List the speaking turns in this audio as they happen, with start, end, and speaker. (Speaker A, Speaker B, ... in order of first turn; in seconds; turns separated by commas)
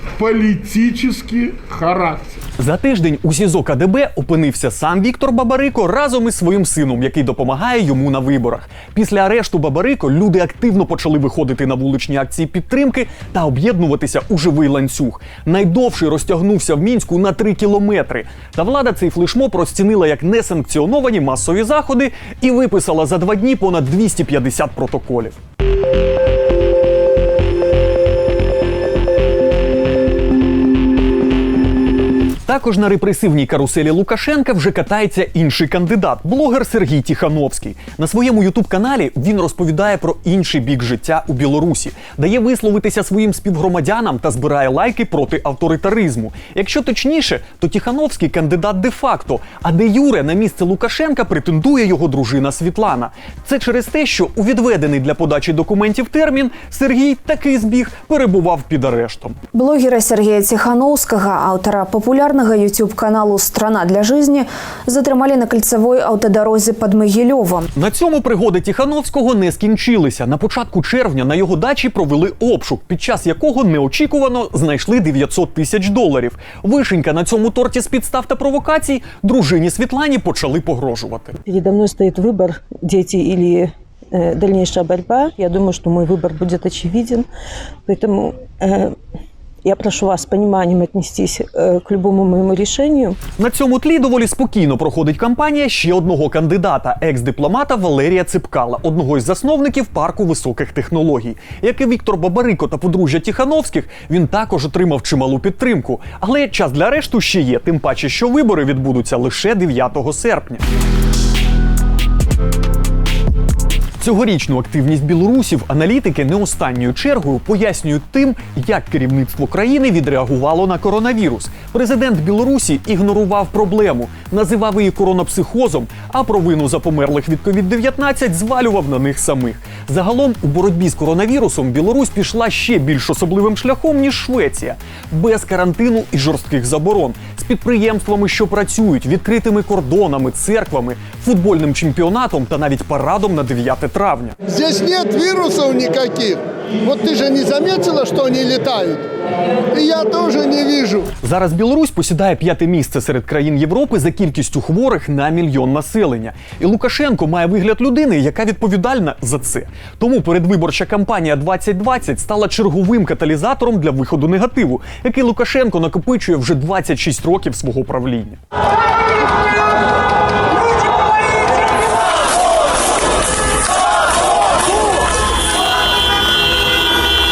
Speaker A: 0.2-2.4, Speaker B: 2.6-25.4, Speaker B: 32.5-59.4, Speaker C: 59.5-67.7, Speaker B: 67.8-81.4, Speaker D: 81.5-87.3, Speaker D: 87.9-89.0, Speaker D: 89.7-93.2, Speaker B: 93.4-110.6, Speaker B: 114.0-144.4, Speaker E: 144.5-149.1, Speaker E: 149.7-151.1, Speaker B: 151.2-168.4